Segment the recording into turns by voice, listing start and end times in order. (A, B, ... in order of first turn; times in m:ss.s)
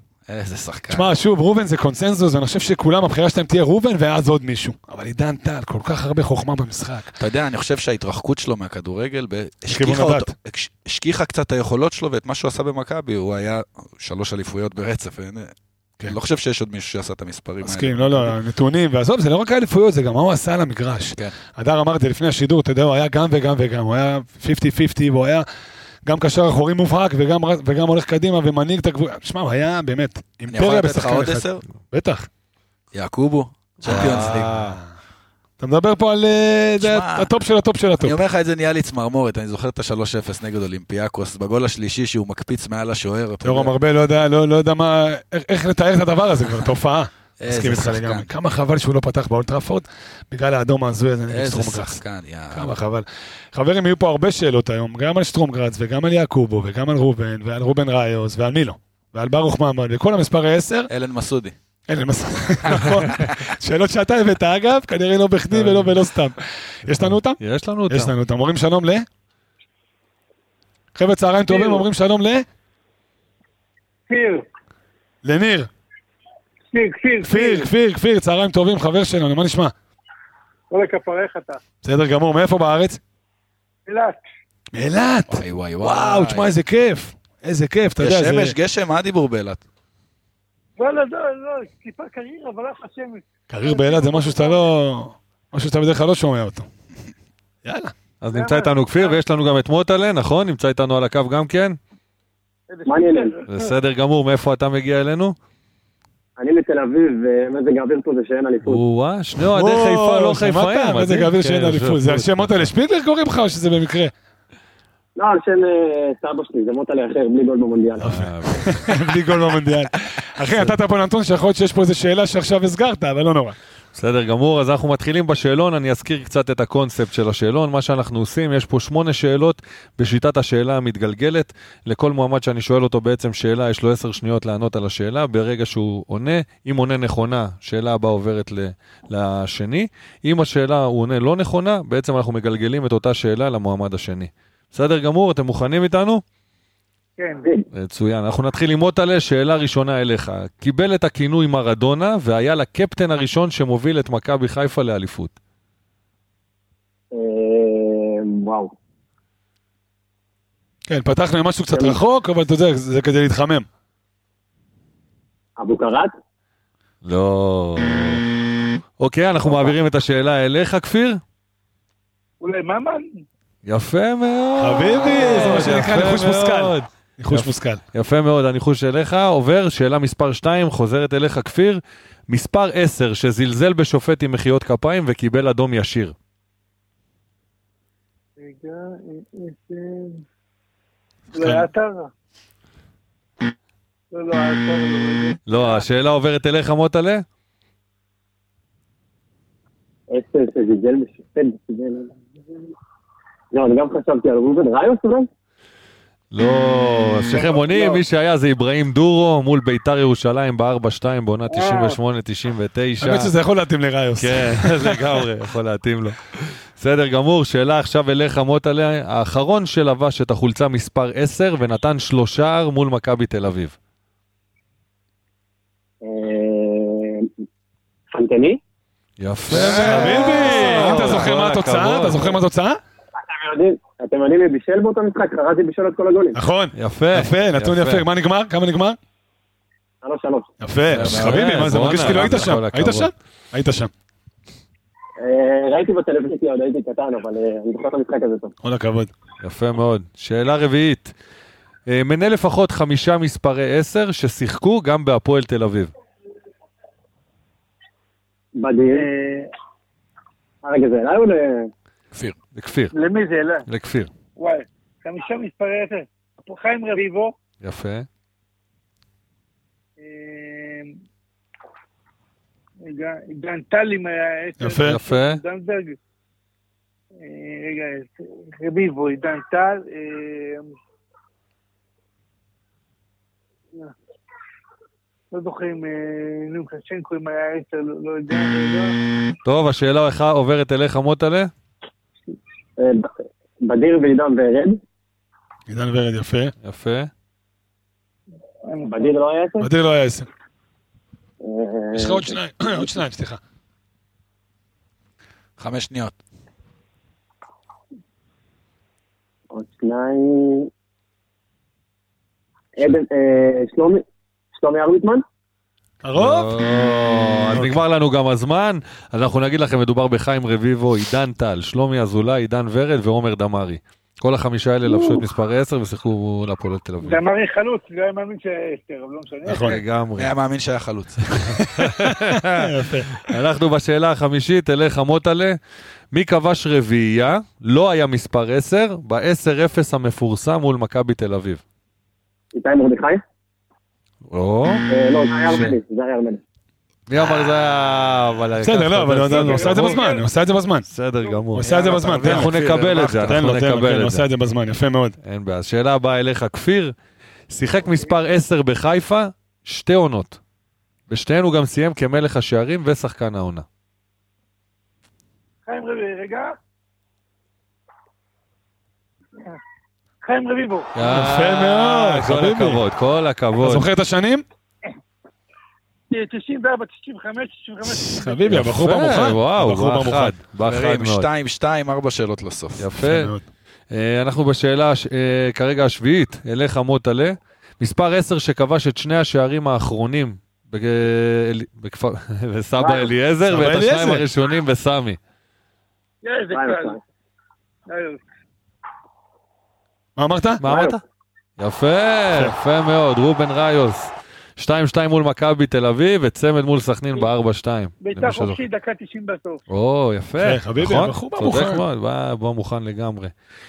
0:00.3-0:01.2 A
0:00.9-0:07.1 B
0:07.2-0:15.5 A
0:09.7-0:10.3 B
0:16.1-0:18.4 A
0:17.6-0:25.4 B
0:26.1-0:32.3 B
0:30.5-0:31.6 A
0:32.9-0:34.5 A
0:33.8-0:34.8 C
0:33.9-0:34.8 B
0:35.6-0:38.2 B
0:36.8-0:37.3 A
0:38.0-0:43.8 A
0:43.4-0:52.0 B
0:47.4-0:48.3 A
0:51.3-0:52.8 A
0:52.5-1:00.9 B
1:00.9-1:01.6 A
1:01.9-1:09.1 B
1:05.5-1:06.0 C
1:07.0-1:08.1 C
1:10.9-1:12.4 B
1:11.5-1:11.9 D
1:14.1-1:14.4 D
1:15.2-1:15.7 B
1:16.7-1:17.7 D
1:17.2-1:19.7 B
1:20.7-1:21.6 D
1:21.8-1:23.0 B
1:23.9-1:24.2 D
1:24.8-1:28.6 B
1:25.3-1:26.5 A
1:28.0-1:29.6 A
1:30.8-1:34.7 D
1:33.5-1:36.7 B
1:37.6-1:37.9 B
1:38.2-1:41.8 C
1:38.3-1:39.2 D
1:42.7-1:43.7 D
1:42.9-1:43.4 E
1:43.5-1:45.4 C
1:46.4-1:48.8 E
1:48.6-1:52.7 C
1:49.4-1:54.1 B
1:55.2-1:58.1 E
1:58.0-2:03.6 B
1:58.0-1:59.1 C
2:00.4-2:00.8 C
2:03.9-2:26.2 C
2:27.2-2:27.5 D
2:27.7-2:35.4 C
2:37.1-2:38.7 E
2:40.9-2:43.7 B
2:41.7-2:42.0 E
2:45.6-2:46.1 E
2:47.0-2:48.2 C
2:49.0-2:51.2 C
2:49.4-2:49.7 E
2:52.4-2:53.2 D
2:53.6-3:06.1 C
2:54.6-2:57.8 B
3:08.4-3:10.2 D
3:11.3-3:12.1 D
3:11.4-3:11.7 B
3:14.1-3:15.8 D
3:15.4-3:17.2 C
3:20.1-3:22.2 E
3:23.5-3:25.3 E
3:26.3-3:33.3 C
3:31.5-3:32.0 D
3:33.0-3:35.2 B
3:34.2-3:43.8 C
3:46.0-3:47.3 E
3:48.1-3:48.6 E
3:49.2-3:52.4 C
3:49.5-3:52.8 B
3:53.2-3:56.4 E
3:56.3-3:59.0 B
3:56.8-3:58.1 C
4:00.0-4:00.5 E
4:00.6-4:03.9 B
4:00.9-4:03.1 C
4:00.9-4:01.3 A
4:05.2-4:08.6 E
4:08.6-4:09.1 B
4:09.4-4:11.1 C
4:11.9-4:15.9 C
4:18.6-4:19.1 E
4:18.9-4:19.5 D
4:20.6-4:21.7 E
4:22.6-4:22.9 C
4:22.9-4:23.7 D
4:23.7-4:24.1 C
4:24.4-4:27.4 D
4:27.6-4:28.1 C
4:30.0-4:31.0 D
4:32.8-4:36.0 D
4:34.6-4:35.0 B
4:34.8-4:35.4 C
4:37.2-4:40.7 D
4:45.3-4:49.0 D
4:49.4-4:51.5 C
4:52.8-4:53.1 E
4:53.6-4:54.8 E
4:55.7-4:56.5 B
4:56.6-4:57.1 C
4:58.6-4:59.2 D
4:58.9-4:59.7 E
4:59.6-5:00.3 B
5:01.4-5:02.4 E
5:01.9-5:03.4 B
5:05.6-5:06.2 A
5:09.5-5:10.7 E
5:12.8-5:15.2 E
5:16.0-5:16.5 B
5:16.2-5:27.2 C
5:17.5-5:17.8 B
5:27.0-5:29.8 D
5:29.5-5:29.8 B
5:29.6-5:30.3 C
5:30.2-5:31.4 A
5:31.3-5:33.3 B
5:31.7-5:35.6 C
5:36.1-5:41.6 C
5:42.5-5:43.2 E
5:44.3-5:44.9 C
5:44.9-5:46.4 E
5:45.5-5:45.8 C
5:47.1-5:50.0 C
5:48.6-5:50.9 B
5:49.3-5:50.3 D
5:50.9-5:54.3 C
5:51.5-5:52.5 B
5:51.6-5:53.4 A
5:53.3-5:55.2 B
5:55.2-5:57.0 C
5:57.5-6:00.4 C
6:01.1-6:03.6 C
6:05.6-6:06.5 D
6:10.2-6:10.9 D
6:11.0-6:13.9 C
6:11.0-6:12.8 B
6:13.6-6:14.4 B
6:16.1-6:18.6 D
6:17.8-6:20.4 B
6:18.5-6:21.3 C
6:20.6-6:22.8 A
6:22.8-6:23.3 C
6:23.0-6:23.4 B
6:23.9-6:35.2 C
6:32.8-6:33.1 E
6:33.5-6:34.2 B
6:36.2-6:37.0 D
6:36.5-6:37.0 E
6:37.9-6:38.2 D
6:40.2-6:40.6 B
6:40.6-6:41.0 C
6:40.6-6:41.0 E
6:41.6-6:48.6 C
6:48.0-6:49.6 D
6:49.7-6:53.3 C
6:50.4-6:51.8 B